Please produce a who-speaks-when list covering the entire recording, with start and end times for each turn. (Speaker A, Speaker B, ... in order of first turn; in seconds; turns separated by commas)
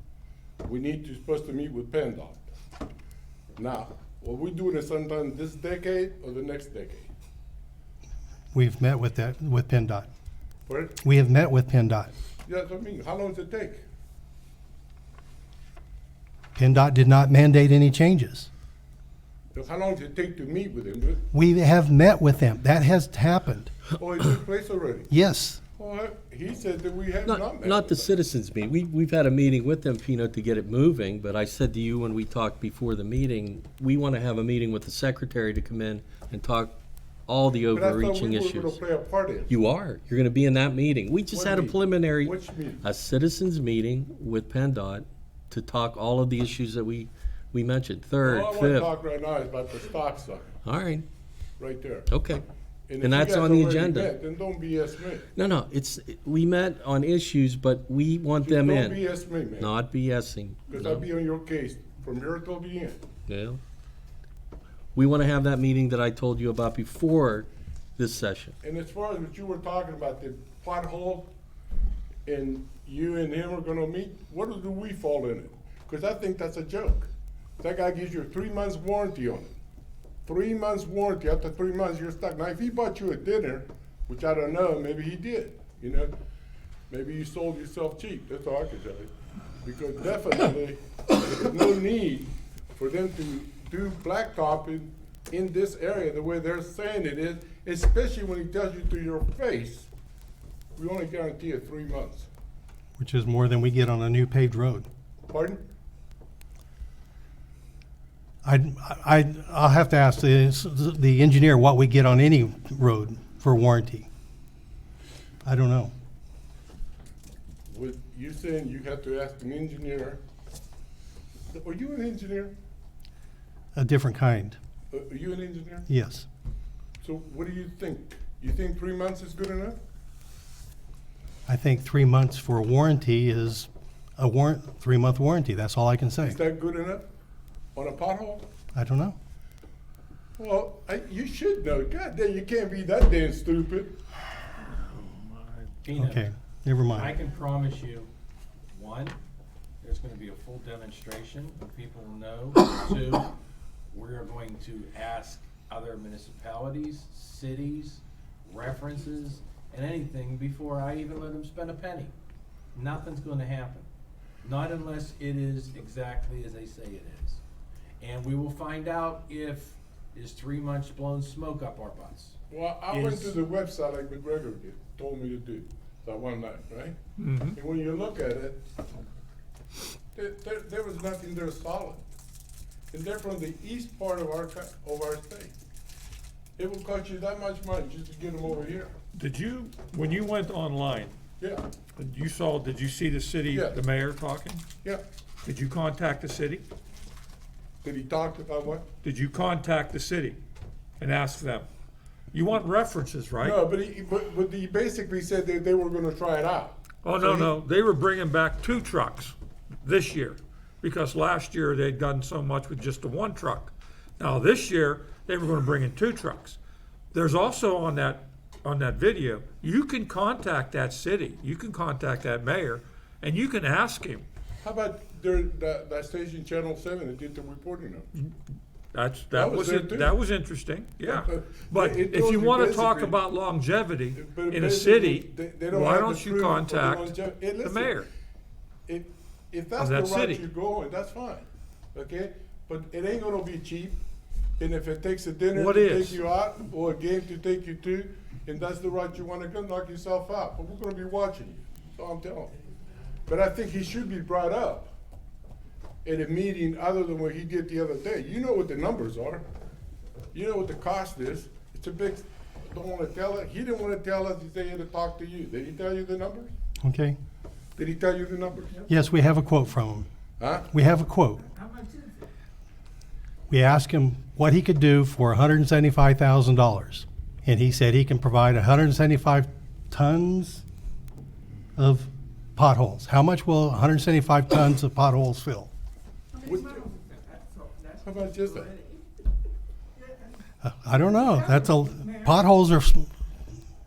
Speaker A: 0.6-2.4, Speaker A: 3.5-7.1, Speaker B: 8.5-10.1, Speaker A: 10.7-11.0, Speaker B: 11.0-12.1, Speaker A: 12.5-13.8, Speaker B: 16.6-18.5, Speaker A: 19.5-21.2, Speaker B: 21.3-23.7, Speaker A: 23.9-25.1, Speaker B: 25.1-25.6, Speaker A: 25.8-28.1, Speaker C: 27.2-38.8, Speaker A: 37.7-39.5, Speaker C: 39.5-48.9, Speaker A: 41.3-42.8, Speaker A: 48.2-50.6, Speaker C: 50.6-51.0, Speaker A: 51.6-52.1, Speaker C: 52.1-52.4, Speaker A: 52.9-55.3, Speaker C: 53.0-54.1, Speaker C: 55.4-59.0, Speaker A: 58.4-59.7, Speaker C: 59.6-61.1, Speaker A: 60.7-63.0, Speaker C: 63.3-63.6, Speaker C: 65.0-68.6, Speaker A: 68.6-71.3, Speaker A: 72.3-79.5, Speaker A: 80.3-86.1, Speaker A: 86.9-89.1, Speaker A: 89.6-99.9, Speaker A: 100.8-102.3, Speaker B: 103.0-104.9, Speaker A: 105.3-105.6, Speaker B: 108.4-114.1, Speaker B: 115.5-115.9, Speaker A: 117.7-120.2, Speaker A: 121.5-122.5, Speaker B: 123.8-124.6, Speaker A: 124.9-125.9, Speaker B: 125.9-126.3, Speaker A: 127.0-129.8, Speaker B: 131.5-136.4, Speaker A: 136.2-137.1, Speaker A: 137.8-138.5, Speaker B: 138.7-139.2, Speaker A: 140.4-143.9, Speaker D: 145.8-146.3, Speaker B: 145.9-147.2, Speaker D: 146.9-148.1, Speaker D: 148.7-149.2, Speaker D: 149.8-153.3, Speaker D: 153.9-162.1, Speaker D: 162.7-163.9, Speaker D: 164.4-167.4, Speaker D: 168.0-172.4, Speaker A: 172.5-177.0, Speaker D: 172.9-173.4, Speaker E: 177.2-177.6, Speaker A: 177.5-178.7, Speaker A: 180.2-182.0, Speaker A: 182.9-185.6, Speaker A: 186.6-188.9, Speaker E: 189.1-191.2, Speaker E: 192.0-194.6, Speaker A: 193.5-193.8, Speaker E: 195.4-196.7, Speaker A: 197.8-198.8, Speaker E: 199.0-200.4, Speaker E: 201.0-201.7, Speaker E: 202.3-203.6, Speaker A: 203.4-207.5, Speaker E: 207.0-216.6, Speaker E: 217.1-224.2, Speaker A: 224.6-228.1, Speaker E: 228.9-238.1, Speaker A: 229.3-230.1, Speaker A: 231.1-233.2, Speaker A: 234.1-238.0, Speaker A: 238.9-244.0, Speaker E: 239.8-240.4, Speaker A: 244.6-252.5, Speaker E: 245.5-246.2, Speaker A: 253.3-254.9, Speaker A: 256.1-259.4, Speaker A: 260.3-266.5, Speaker B: 266.8-267.2, Speaker A: 267.8-268.8, Speaker B: 268.9-270.1, Speaker A: 270.4-270.7, Speaker B: 270.7-271.5, Speaker B: 273.5-280.6, Speaker B: 281.8-285.7, Speaker A: 286.4-286.9, Speaker A: 288.0-288.8, Speaker B: 290.6-293.1